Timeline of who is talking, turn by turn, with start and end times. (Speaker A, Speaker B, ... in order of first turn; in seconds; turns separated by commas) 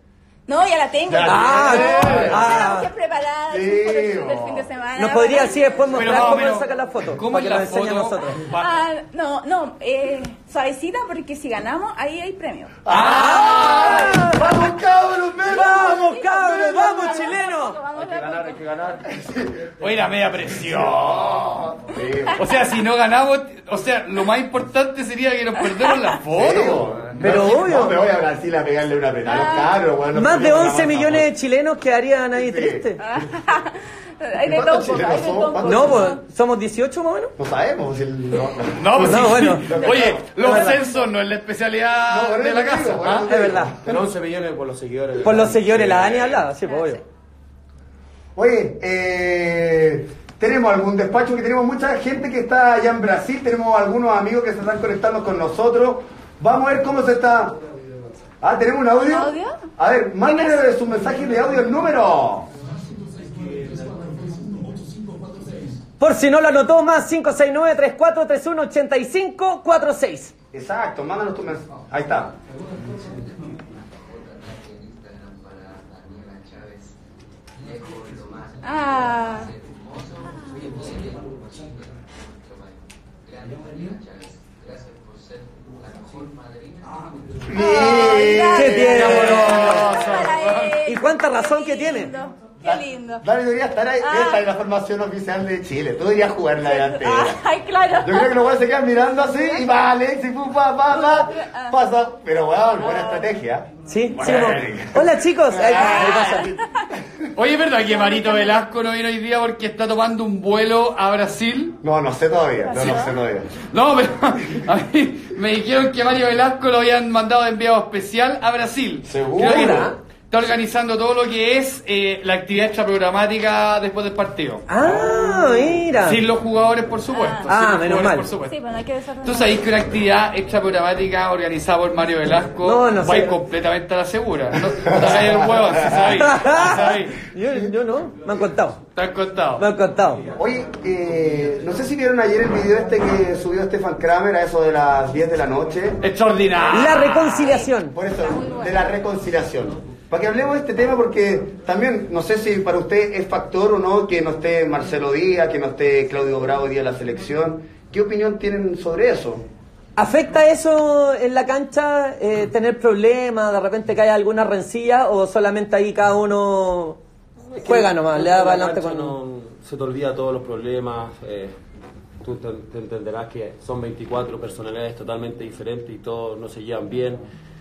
Speaker A: 0.5-6.5, Speaker B: 1.1-2.6, Speaker C: 1.2-2.9, Speaker D: 1.8-2.3, Speaker B: 3.5-4.7, Speaker C: 5.0-8.4, Speaker D: 5.9-8.7, Speaker A: 8.6-12.9, Speaker B: 12.8-16.1, Speaker D: 12.9-14.3, Speaker C: 12.9-14.7, Speaker A: 13.6-14.2, Speaker C: 15.4-17.8, Speaker A: 15.5-18.6, Speaker B: 17.9-19.8, Speaker D: 19.8-21.6, Speaker B: 20.7-22.4, Speaker D: 22.4-26.9, Speaker B: 26.3-31.3, Speaker C: 27.2-28.0, Speaker A: 29.2-29.7, Speaker C: 30.1-33.0, Speaker B: 32.3-32.9, Speaker A: 33.0-36.2, Speaker B: 34.4-36.0, Speaker C: 35.6-37.3, Speaker B: 37.4-40.5, Speaker D: 38.8-43.5, Speaker C: 39.0-39.8, Speaker C: 40.4-40.8, Speaker A: 40.5-40.9, Speaker B: 42.0-44.0, Speaker C: 43.2-43.8, Speaker E: 43.8-46.5, Speaker C: 45.2-47.0, Speaker A: 46.7-47.0, Speaker B: 48.3-57.6, Speaker B: 58.4-62.5, Speaker A: 59.0-59.6, Speaker A: 60.2-60.6, Speaker C: 66.0-70.3, Speaker B: 70.5-72.3, Speaker A: 78.6-79.5, Speaker B: 87.5-90.1, Speaker A: 87.5-93.2, Speaker C: 88.5-90.0, Speaker D: 88.9-90.8, Speaker C: 90.8-92.1, Speaker B: 92.6-97.4, Speaker A: 94.0-94.4, Speaker A: 96.6-98.6, Speaker B: 98.0-107.3, Speaker A: 99.1-99.7, Speaker A: 100.9-101.7, Speaker A: 102.8-103.3, Speaker C: 103.8-106.5, Speaker D: 105.8-106.4, Speaker D: 107.3-111.8, Speaker A: 107.9-108.6, Speaker B: 111.8-113.5, Speaker A: 112.7-113.2, Speaker D: 113.6-124.6, Speaker B: 119.0-119.8, Speaker C: 119.4-120.0, Speaker C: 124.7-126.2, Speaker D: 126.0-128.6, Speaker A: 127.1-127.5, Speaker C: 127.5-128.3, Speaker A: 128.5-129.7, Speaker D: 129.2-137.2, Speaker C: 132.6-133.3, Speaker B: 134.8-136.2, Speaker C: 136.1-138.8, Speaker D: 138.9-139.6, Speaker C: 139.6-140.2, Speaker B: 140.3-146.0, Speaker D: 146.0-147.5, Speaker C: 146.7-147.9, Speaker A: 147.4-147.7, Speaker B: 147.9-159.4, Speaker A: 148.2-148.9, Speaker C: 159.9-167.0, Speaker E: 167.5-171.6, Speaker C: 167.6-169.1, Speaker E: 172.2-177.2